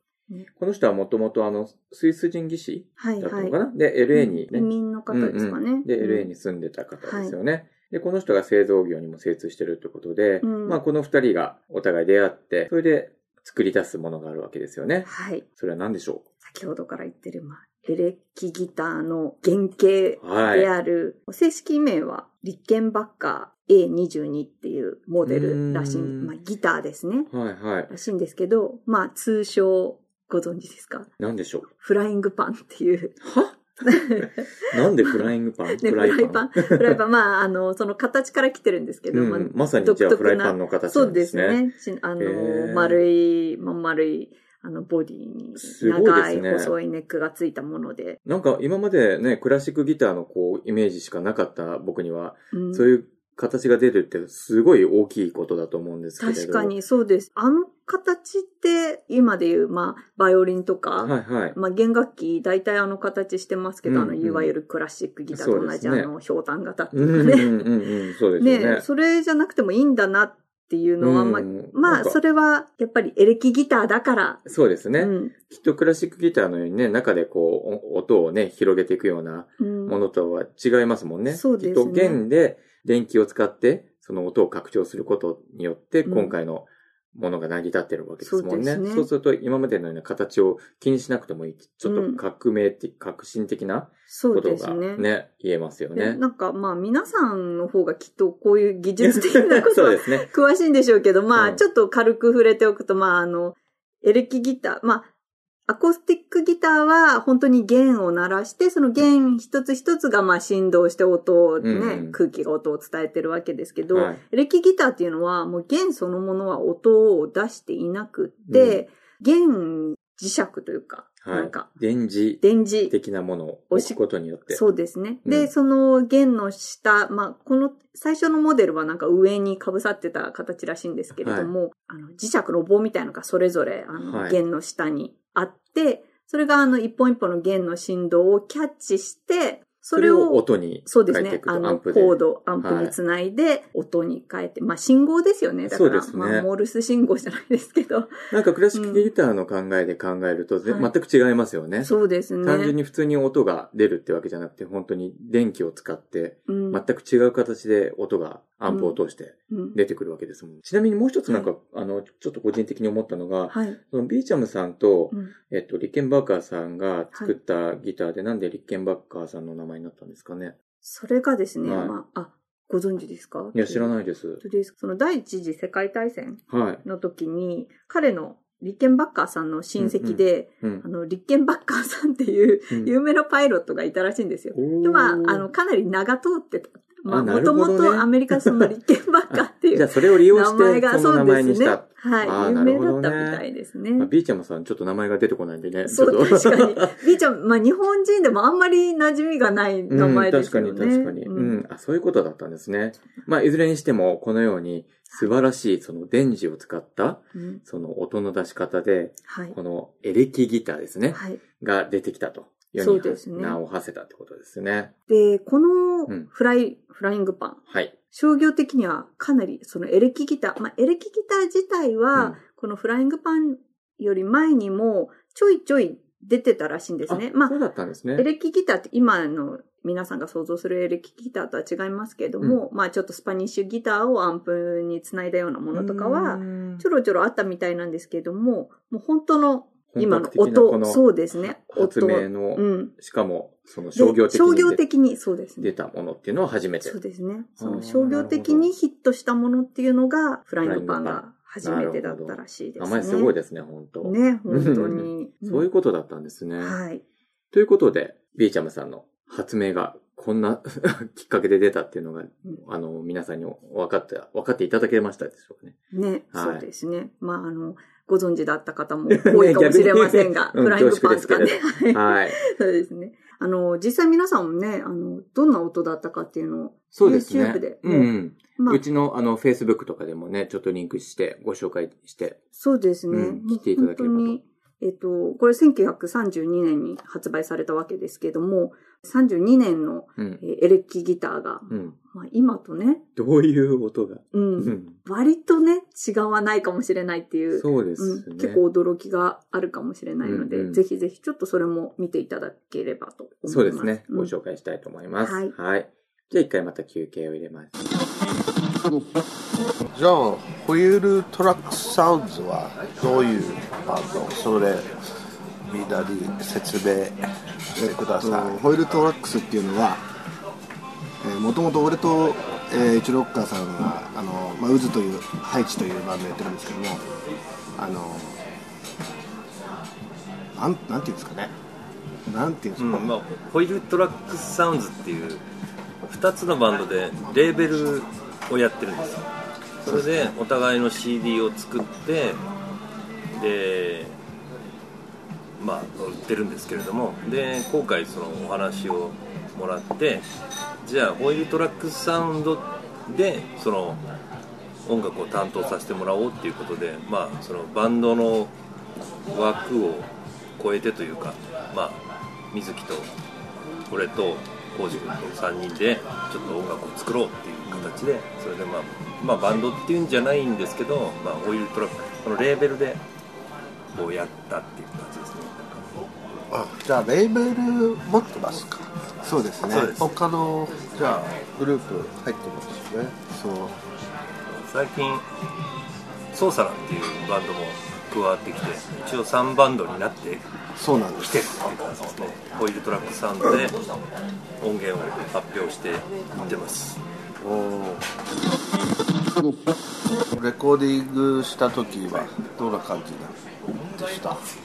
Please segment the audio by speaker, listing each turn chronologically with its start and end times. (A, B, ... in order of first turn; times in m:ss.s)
0:00.5-0:16.3 A
0:03.0-0:03.6 B
0:04.1-0:06.3 B
0:07.0-0:07.4 B
0:10.4-0:10.8 B
0:15.0-0:15.4 B
0:16.4-0:27.3 B
0:20.2-0:20.7 A
0:25.2-0:26.3 A
0:27.3-0:27.9 A
0:27.9-0:31.1 B
0:31.2-0:31.7 A
0:31.7-0:33.2 B
0:33.2-0:37.0 A
0:33.9-0:34.4 B
0:35.1-0:48.2 B
0:39.1-0:41.6 A
0:42.2-0:43.0 A
0:45.6-0:46.7 A
0:48.2-0:56.7 A
0:52.5-0:52.9 B
0:56.2-1:07.5 B
1:01.0-1:01.6 A
1:03.8-1:04.5 A
1:05.3-1:06.1 A
1:06.9-1:08.8 A
1:08.4-1:14.5 B
1:11.0-1:12.2 A
1:14.5-1:36.2 A
1:15.0-1:15.3 B
1:19.6-1:20.0 B
1:21.3-1:22.2 B
1:26.1-1:26.4 B
1:28.2-1:29.1 B
1:31.8-1:32.2 B
1:34.1-1:35.1 B
1:36.0-1:45.1 B
1:39.0-1:40.3 A
1:41.4-1:41.6 A
1:45.7-2:01.7 B
1:51.6-1:52.2 A
1:53.9-1:54.2 A
1:58.5-1:58.8 A
2:01.2-2:04.6 A
2:02.4-2:02.9 B
2:03.7-2:28.1 B
2:05.2-2:05.5 A
2:11.2-2:11.5 A
2:14.0-2:14.4 A
2:19.9-2:23.0 A
2:25.7-2:26.5 A
2:28.3-2:50.6 A
2:28.7-2:29.1 B
2:30.6-2:30.9 B
2:31.8-2:32.8 B
2:36.5-2:36.8 B
2:38.7-2:39.0 B
2:39.5-2:39.8 B
2:43.5-2:43.8 B
2:50.8-3:14.1 B
2:51.6-2:51.9 A
2:53.5-2:54.4 A
2:56.5-2:56.8 A
2:59.8-3:00.8 A
3:04.5-3:05.5 A
3:07.1-3:08.7 A
3:09.4-3:13.4 A
3:14.0-3:17.0 A
3:15.9-3:21.6 B
3:19.9-3:34.9 A
3:27.4-3:27.6 B
3:29.3-3:29.6 B
3:31.1-3:31.4 B
3:32.8-3:33.6 B
3:35.1-3:37.6 B
3:37.7-3:37.9 A
3:38.1-3:47.6 B
3:47.1-3:48.3 A
3:48.2-4:02.9 B
3:55.7-3:56.8 A
3:59.9-4:04.8 A
4:04.0-4:05.7 B
4:05.6-4:07.0 A
4:06.8-4:13.3 B
4:07.6-4:08.7 A
4:10.6-4:16.8 A
4:14.0-4:15.7 B
4:16.6-4:17.0 B
4:17.5-4:25.8 A
4:25.9-4:38.8 B
4:26.3-4:26.6 A
4:29.1-4:32.4 A
4:36.9-4:42.4 A
4:42.6-4:53.0 B
4:43.1-4:44.4 A
4:51.7-4:52.0 A
4:53.2-4:55.0 A
4:54.3-5:04.3 B
4:57.5-4:58.6 A
5:00.2-5:00.8 A
5:03.5-5:07.7 A
5:05.2-5:05.5 B
5:09.9-5:14.9 C
5:15.7-5:17.2 C
5:17.7-5:18.6 C
5:17.8-5:20.0 D
5:21.2-5:27.0 D
5:27.8-5:28.4 D
5:30.6-5:31.5 D
5:32.3-5:33.1 D
5:32.8-5:35.4 E
5:36.1-5:39.3 E
5:39.8-5:42.4 E
5:43.4-5:44.2 E
5:45.6-5:50.3 E
5:50.8-5:54.0 E
5:54.8-5:58.6 E
5:59.3-6:02.0 E
6:02.5-6:03.1 E
6:03.9-6:13.0 E
6:13.9-6:15.9 E
6:16.5-6:18.9 C
6:19.2-6:19.9 D
6:19.7-6:20.0 E
6:19.8-6:23.3 C
6:23.4-6:23.7 D
6:24.5-6:25.2 E
6:26.3-6:30.5 E
6:30.8-6:31.2 D
6:31.1-6:33.8 E
6:34.6-6:37.0 E
6:37.4-6:38.0 C
6:40.3-6:44.4 C